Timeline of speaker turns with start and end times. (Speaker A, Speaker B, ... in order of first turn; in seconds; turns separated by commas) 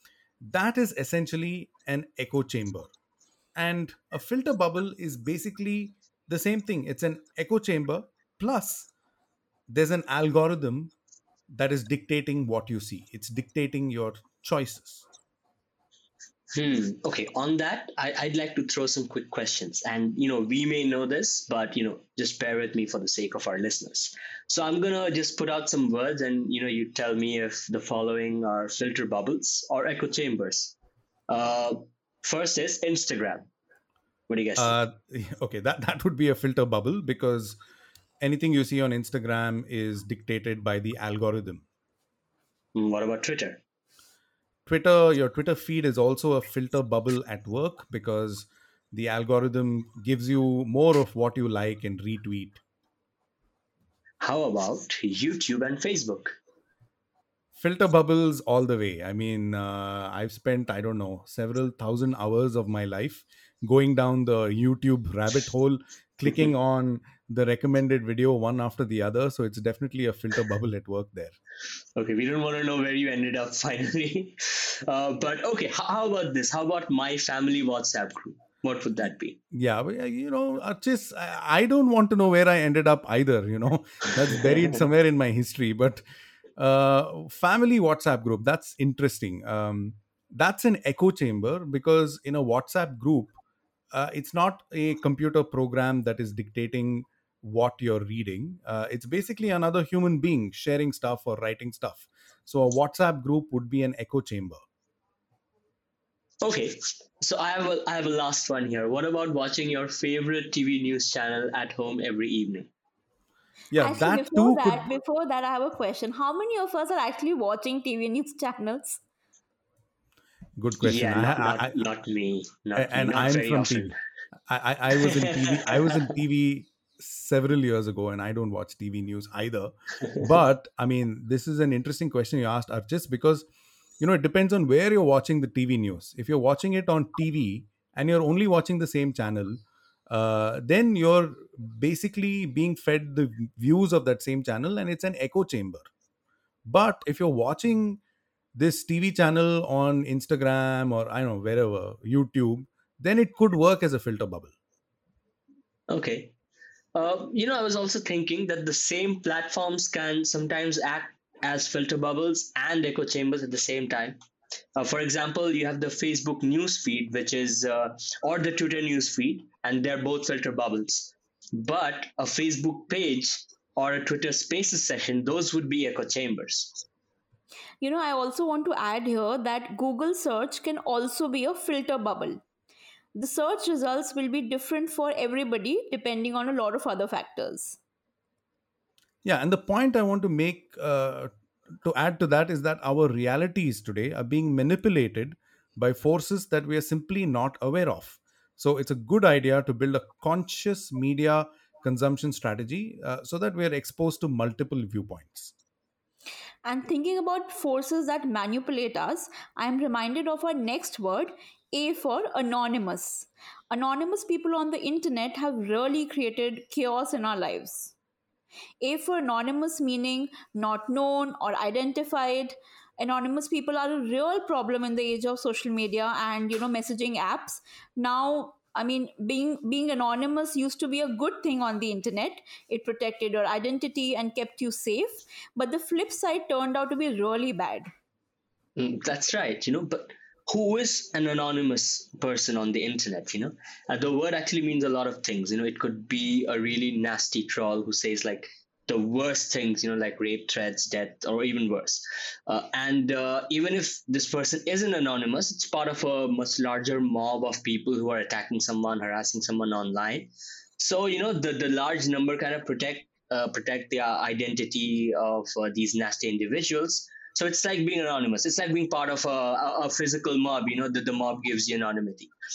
Speaker A: 0.4-2.9, Speaker A: 3.5-8.9, Speaker A: 9.7-10.9, Speaker A: 11.5-15.1, Speaker B: 16.5-30.8, Speaker B: 31.3-33.5, Speaker B: 34.3-34.8, Speaker A: 34.6-37.6, Speaker A: 38.2-41.6, Speaker B: 42.7-43.6, Speaker A: 44.6-52.6, Speaker B: 54.2-56.4, Speaker A: 57.5-71.3, Speaker B: 72.0-79.4, Speaker A: 79.5-86.0, Speaker B: 84.4-84.7, Speaker A: 86.6-93.3, Speaker A: 93.9-104.6, Speaker B: 106.4-112.7, Speaker A: 113.7-114.8, Speaker C: 113.8-119.0, Speaker A: 120.6-121.8, Speaker B: 120.8-123.9, Speaker A: 122.7-123.9, Speaker A: 124.5-133.4, Speaker B: 125.0-125.9, Speaker A: 134.0-145.9, Speaker A: 146.7-148.0, Speaker A: 148.6-154.5, Speaker B: 155.9-156.3, Speaker B: 156.9-164.2, Speaker B: 164.8-176.7, Speaker C: 177.8-182.4, Speaker C: 183.1-187.8, Speaker A: 189.2-191.3, Speaker A: 191.8-205.5, Speaker C: 206.6-217.9, Speaker C: 218.8-237.9, Speaker B: 238.8-272.3